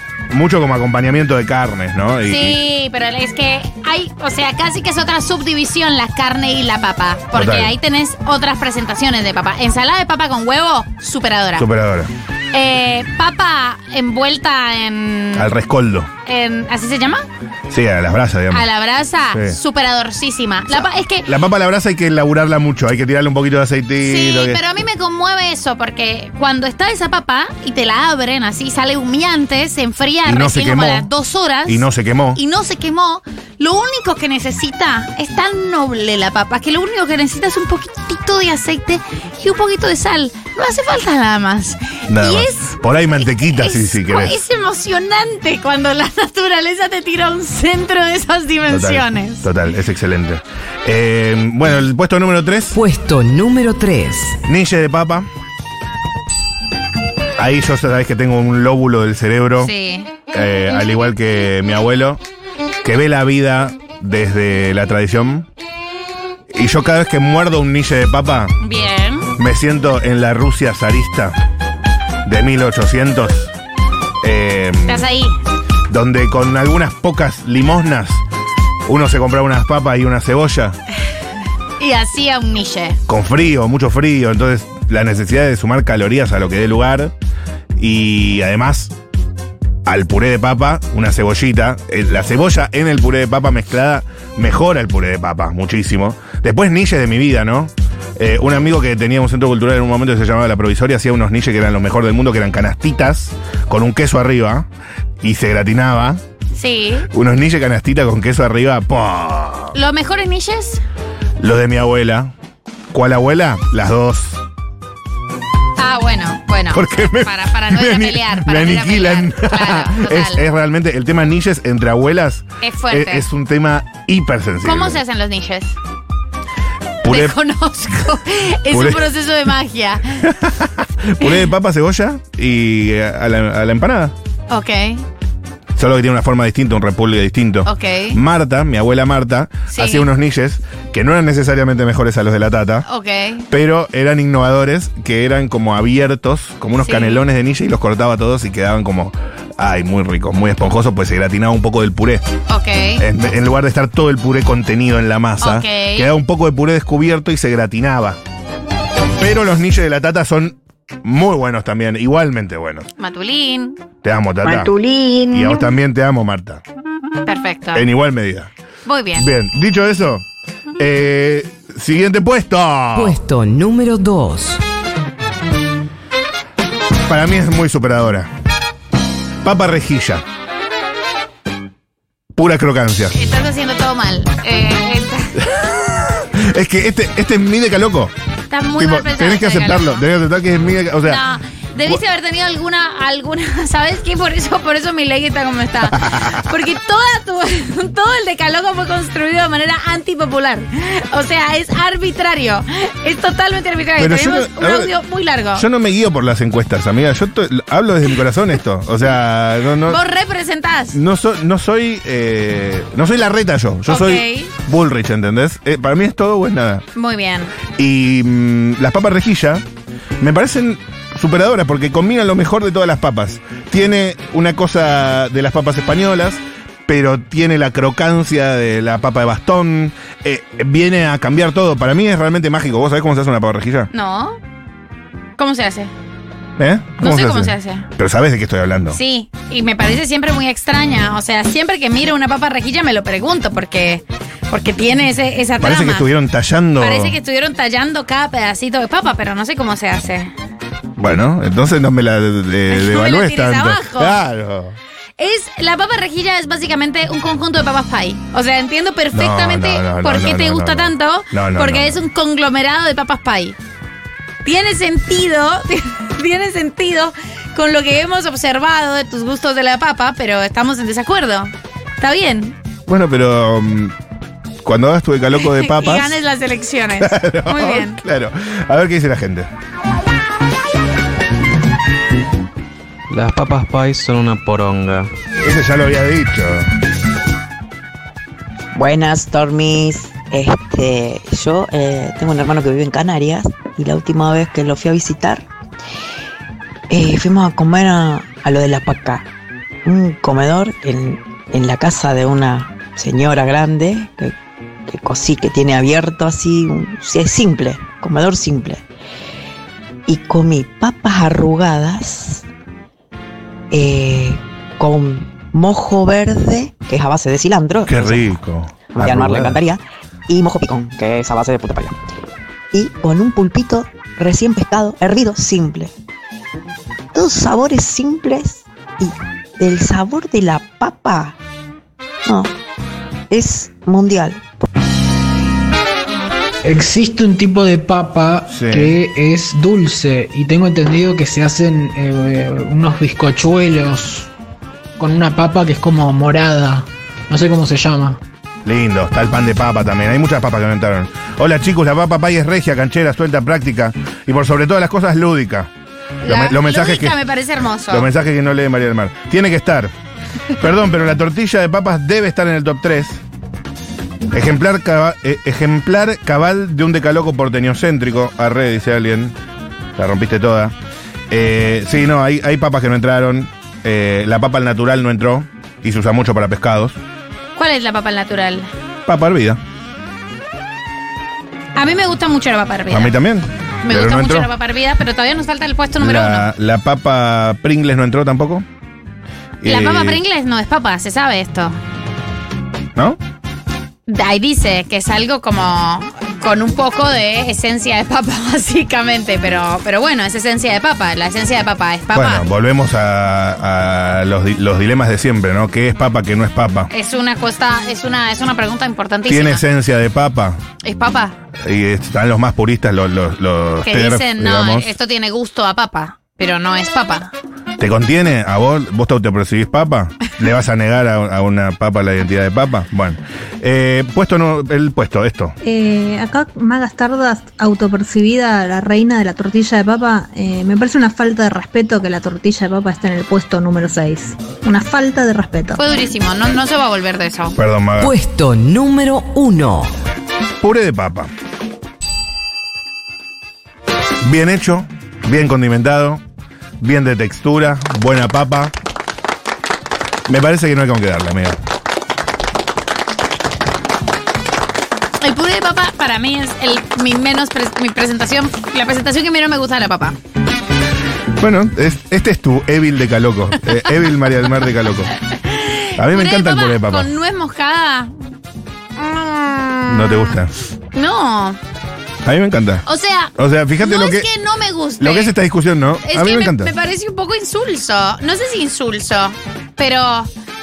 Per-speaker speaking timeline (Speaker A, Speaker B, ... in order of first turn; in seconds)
Speaker A: 0.3-2.6, 7.3-7.7, 11.6-12.1, 15.3-16.1, 17.7-18.7, 19.3-19.6, 20.7-24.6, 30.2-31.1, 31.6-32.4, 42.1-44.4, 48.7-52.8, 54.5-55.3, 57.4-59.7, 60.3-62.2, 62.8-65.5, 66.5-68.5, 69.4-71.4, 72.2-73.5, 74.2-75.0, 75.9-78.2, 78.8-80.8, 83.1-87.1, 87.8-88.9, 89.8-104.7, 105.2-106.2, 107.1-109.8, 111.4-112.3, 112.9-114.4, 116.7-125.0, 127.0-127.3, 128.7-129.1, 130.2-134.1, 135.8-142.9, 143.5-152.2, 153.0-158.2, 159.2-162.9, 164.0-164.8, 165.3-166.6, 167.7-168.5, 169.2-170.2, 170.8-173.2, 177.1-178.3, 179.4-180.2, 182.3-183.1, 185.4-188.1, 188.8-191.2, 195.9-196.5, 204.0-204.9, 205.5-210.0, 210.9-216.8, 217.7-219.6, 220.2-233.9, 236.6-239.0, 245.6-247.2, 251.0-254.8, 259.1-262.0, 272.9-273.9, 274.6-276.2, 277.0-279.5, 285.4-286.7, 317.9-319.5, 338.5-338.9, 348.6-355.7, 356.2-357.2, 357.9-359.9, 360.6-363.2, 364.3-369.3, 369.9-370.7, 371.3-377.0, 379.1-379.6, 382.9-384.5, 386.0-388.6, 389.6-390.2, 402.1-406.9, 409.2-410.6, 411.6-414.9, 417.8-425.6, 437.6-438.1, 440.6-441.3, 444.2-446.2, 446.8-448.7, 450.2-451.6, 461.4-465.1, 466.0-467.1, 469.9-470.5, 472.2-472.8, 473.4-474.3, 475.0-476.7
Speaker B: 2.2-11.7, 12.5-15.5, 16.2-17.2, 18.5-21.3, 24.0-49.5, 59.6-60.1, 68.6-69.3, 74.8-75.3, 81.8-83.0, 106.5-107.1, 109.7-110.8, 115.8-120.4, 122.6-123.3, 124.6-125.8, 127.0-130.3, 134.5-135.0, 137.7-138.2, 139.7-140.1, 142.8-143.5, 146.8-147.2, 152.5-153.0, 155.4-156.1, 163.0-163.8, 167.2-167.9, 168.8-169.3, 183.1-185.5, 188.5-190.1, 191.0-205.7, 209.8-211.0, 213.9-214.5, 216.9-217.6, 233.9-234.4, 235.4-235.9, 237.0-237.9, 238.9-246.1, 246.8-250.3, 252.7-254.2, 255.2-263.6, 264.4-272.6, 275.4-278.0, 356.2-358.1, 377.6-378.7, 381.8-383.1, 383.8-386.5, 389.6-391.7, 394.1-402.4, 406.9-409.6, 410.8-411.4, 413.8-417.3, 435.8-437.6, 455.2-460.1, 465.3-468.1, 468.9-470.4, 470.9-471.6, 472.9-475.3, 476.0-480.3
Speaker C: 52.7-54.4, 172.9-174.6, 438.0-439.9
Speaker D: 165.0-165.3, 288.7-295.5, 296.9-299.3, 299.8-304.3, 304.9-308.9, 310.1-312.4, 313.7-322.0, 322.7-325.9, 327.1-331.4, 332.2-332.5, 333.3-334.5
Speaker E: 283.1-285.1
Speaker F: 336.6-344.3, 345.0-348.2
Speaker G: 425.6-435.8